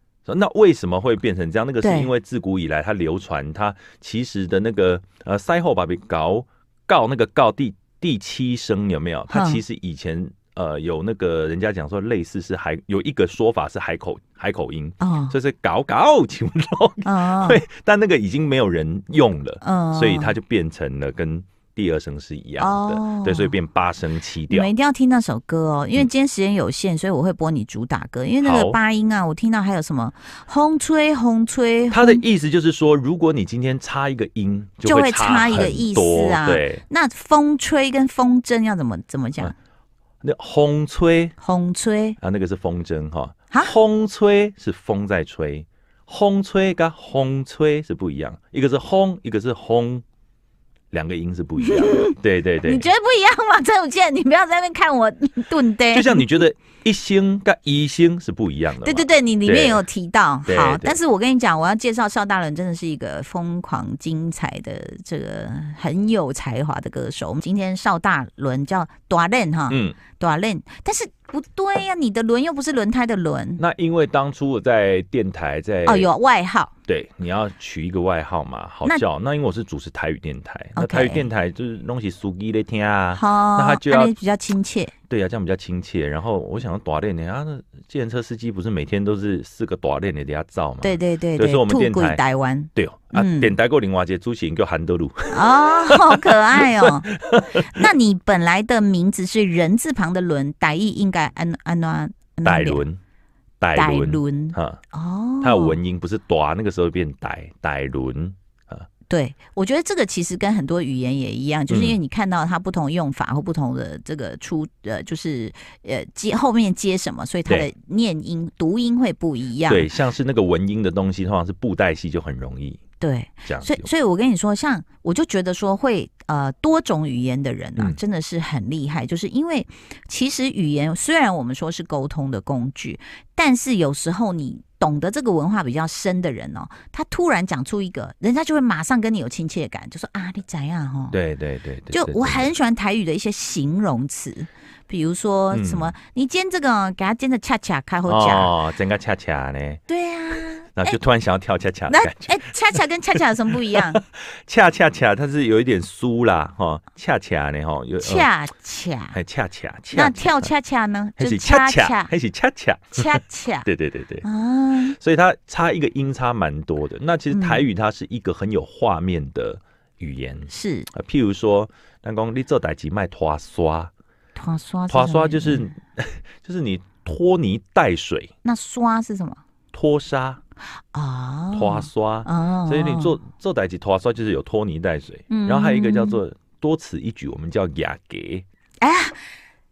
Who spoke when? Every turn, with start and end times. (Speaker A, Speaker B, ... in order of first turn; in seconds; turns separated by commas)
Speaker A: 0.2-24.7, Speaker B: 1.8-2.1, Speaker B: 9.3-9.6, Speaker B: 15.0-15.3, Speaker B: 17.0-17.6, Speaker B: 19.6-20.3, Speaker B: 22.6-23.5, Speaker B: 24.5-32.2, Speaker A: 28.4-28.8, Speaker A: 31.9-36.8, Speaker B: 34.8-39.5, Speaker A: 40.2-41.3, Speaker B: 41.4-42.2, Speaker A: 42.2-50.0, Speaker A: 50.9-52.9, Speaker B: 51.6-52.1, Speaker B: 52.6-56.3, Speaker A: 55.9-59.8, Speaker B: 58.8-73.6, Speaker A: 60.5-61.0, Speaker A: 69.7-70.0, Speaker A: 73.6-76.1, Speaker B: 75.8-76.7, Speaker A: 76.9-84.1, Speaker B: 80.8-81.3, Speaker B: 83.1-84.9, Speaker A: 85.1-92.2, Speaker B: 90.8-93.5, Speaker A: 92.7-97.9, Speaker B: 95.3-102.8, Speaker A: 102.4-103.0, Speaker A: 103.6-104.8, Speaker B: 103.7-105.8, Speaker A: 105.4-108.9, Speaker B: 109.1-119.9, Speaker A: 111.7-112.0, Speaker A: 119.7-122.8, Speaker B: 123.0-141.2, Speaker A: 123.5-123.9, Speaker A: 141.1-142.5, Speaker B: 141.9-148.5, Speaker A: 145.5-145.9, Speaker A: 148.1-149.8, Speaker B: 149.9-151.0, Speaker A: 150.7-158.3, Speaker B: 151.9-154.0, Speaker B: 158.0-159.2, Speaker A: 159.1-160.5, Speaker B: 159.9-162.1, Speaker A: 161.2-164.2, Speaker B: 162.9-163.7, Speaker B: 164.2-165.0, Speaker A: 164.9-173.9, Speaker B: 167.3-167.6, Speaker B: 170.5-170.9, Speaker B: 174.3-175.7, Speaker A: 174.9-178.3, Speaker B: 178.4-179.4, Speaker A: 179.7-180.4, Speaker B: 180.9-183.2, Speaker A: 181.5-188.4, Speaker B: 185.3-186.2, Speaker B: 188.8-189.2